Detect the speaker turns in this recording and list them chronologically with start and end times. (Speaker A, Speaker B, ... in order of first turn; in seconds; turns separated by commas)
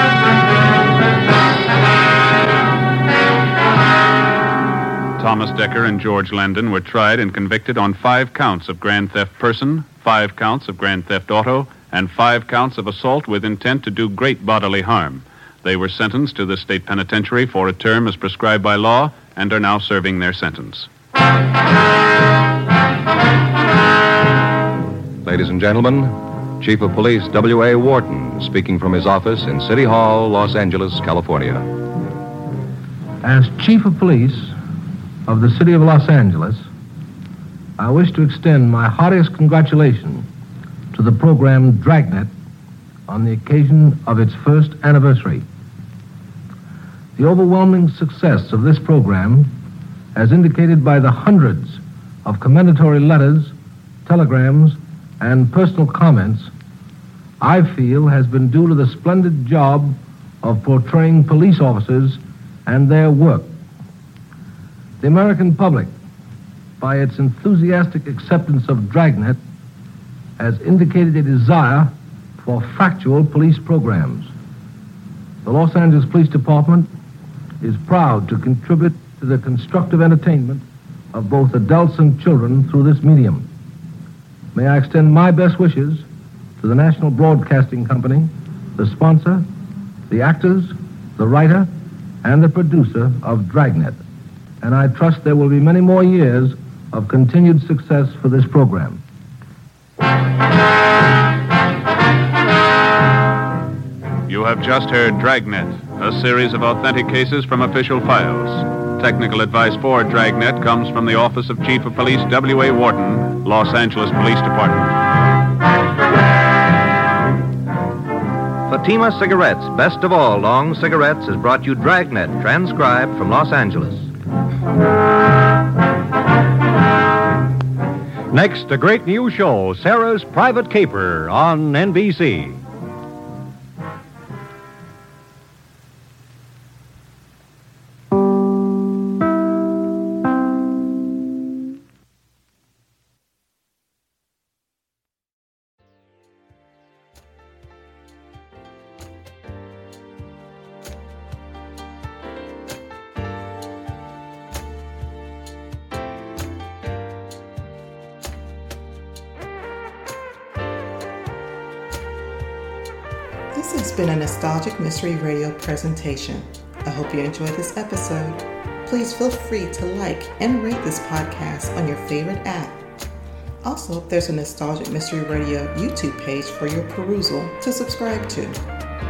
Speaker A: 5.2-20.9, Speaker B: 25.2-31.7, Speaker C: 33.2-34.5, Speaker C: 35.3-36.7, Speaker C: 37.8-40.3, Speaker C: 40.9-42.3, Speaker C: 43.1-45.5, Speaker C: 47.2-49.5, Speaker C: 50.1-53.5, Speaker C: 54.1-56.5, Speaker C: 57.4-63.5, Speaker C: 65.0-65.9, Speaker C: 66.8-69.4, Speaker C: 70.4-74.3, Speaker C: 75.4-76.9, Speaker C: 77.6-83.5, Speaker C: 84.5-86.0, Speaker C: 86.6-89.5, Speaker C: 90.1-91.7, Speaker C: 92.2-94.0, Speaker C: 94.6-99.0, Speaker A: 104.3-115.0, Speaker D: 118.7-124.1, Speaker E: 128.3-132.6, Speaker F: 163.5-172.8, Speaker F: 173.6-178.6